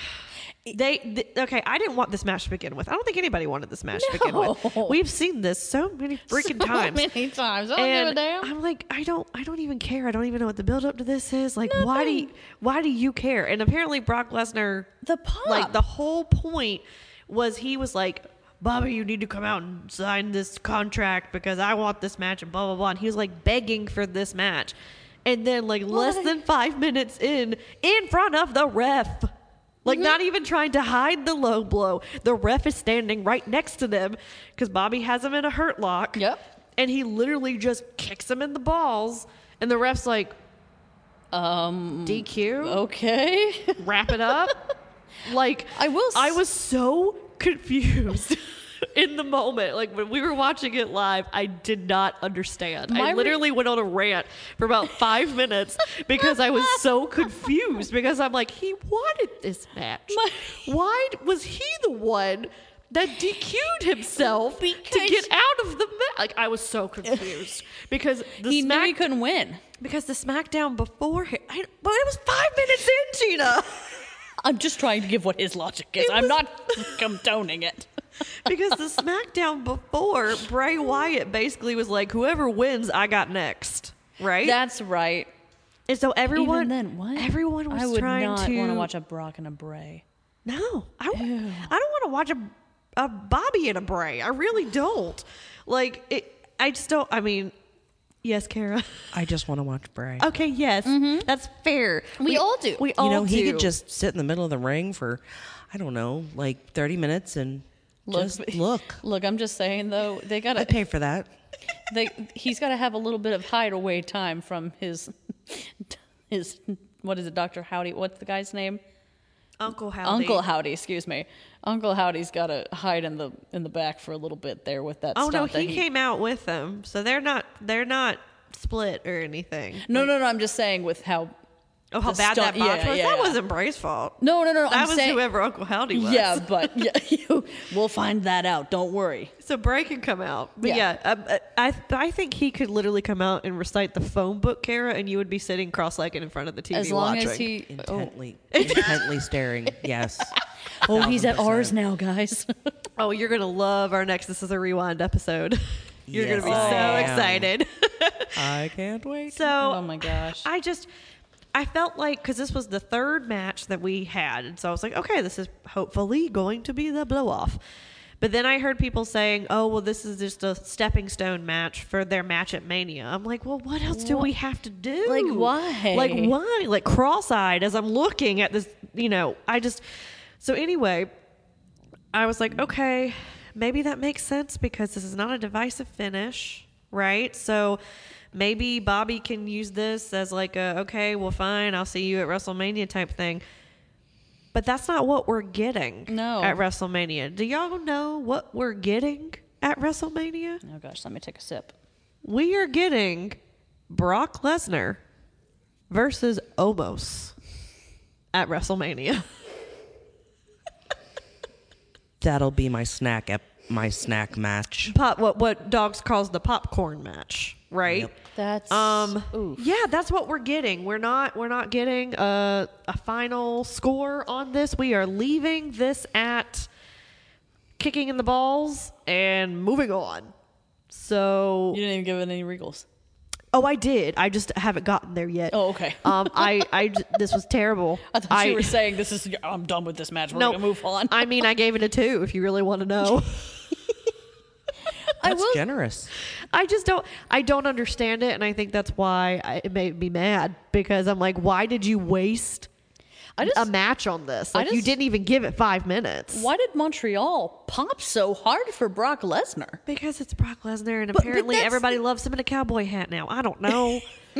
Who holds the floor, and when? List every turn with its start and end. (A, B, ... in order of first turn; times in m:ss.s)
0:00.7-0:07.1 A
0:03.9-0:05.0 B
0:06.3-0:08.5 B
0:07.8-0:14.9 A
0:11.6-0:12.3 B
0:15.0-0:15.8 B
0:15.4-0:24.7 A
0:25.2-0:29.3 A
0:25.9-0:26.3 B
0:29.8-0:36.2 A
0:29.9-0:30.2 B
0:36.1-0:36.4 B
0:36.8-0:40.3 A
0:41.3-0:44.5 B
0:42.0-0:42.8 A
0:43.8-0:44.6 A
0:45.2-1:09.0 A
0:45.7-0:46.4 B
0:52.9-0:53.4 B
0:56.1-0:57.5 B
1:00.1-1:00.7 B
1:04.2-1:05.3 B
1:07.0-1:07.6 B
1:08.4-1:09.6 B
1:09.8-1:13.9 A
1:14.4-1:17.9 B
1:16.0-1:16.4 A
1:18.4-1:24.6 A
1:24.4-1:25.3 B
1:25.9-1:28.9 A
1:26.3-1:30.0 B
1:30.4-1:37.5 A
1:31.1-1:31.7 B
1:38.2-1:39.1 A
1:39.1-1:40.3 C
1:40.2-1:43.7 A
1:40.8-1:41.3 B
1:42.2-1:42.9 B
1:43.0-1:49.0 C
1:48.1-1:50.7 B
1:50.6-1:51.3 C
1:51.9-1:58.8 B
1:59.6-2:00.4 A
2:00.0-2:05.8 B
2:05.2-2:10.1 A
2:09.8-2:11.3 B
2:11.9-2:16.8 A
2:12.0-2:13.4 B
2:14.2-2:15.2 B
2:15.9-2:19.3 B
2:19.4-2:27.5 A
2:26.7-2:28.9 B
2:27.7-2:31.8 C
2:28.5-2:29.0 A
2:30.8-2:32.7 B
2:33.0-2:38.5 A
2:36.1-2:37.5 C
2:36.4-2:37.1 B
2:38.4-2:39.4 C
2:39.3-2:40.9 A
2:39.4-2:40.5 B
2:41.5-2:47.6 A
2:48.2-2:59.8 A
2:53.9-2:54.3 B
2:55.0-2:56.3 B
3:00.4-3:01.1 A
3:02.1-3:07.8 A
3:08.3-3:13.4 A
3:14.5-3:20.6 A
3:16.1-3:16.6 B
3:20.6-3:21.7 B
3:22.2-3:23.4 A
3:23.9-3:25.0 A
3:25.9-3:27.3 A
3:28.3-3:29.2 A
3:32.2-3:35.0 C
3:34.9-3:38.1 A
3:37.8-3:38.1 C
3:38.3-3:39.6 B
3:38.7-3:46.7 A
3:47.8-3:50.3 A
3:50.9-3:51.8 A
3:51.7-3:52.8 B
3:53.5-3:58.7 A
3:55.5-3:56.7 B
3:58.1-4:01.4 B
4:00.3-4:03.6 A
4:05.2-4:05.6 B
4:05.2-4:06.1 C
4:06.5-4:12.7 A
4:13.4-4:13.7 B
4:13.4-4:16.5 A
4:14.5-4:14.9 B
4:16.3-4:19.8 B
4:19.9-4:24.0 A
4:21.1-4:22.0 B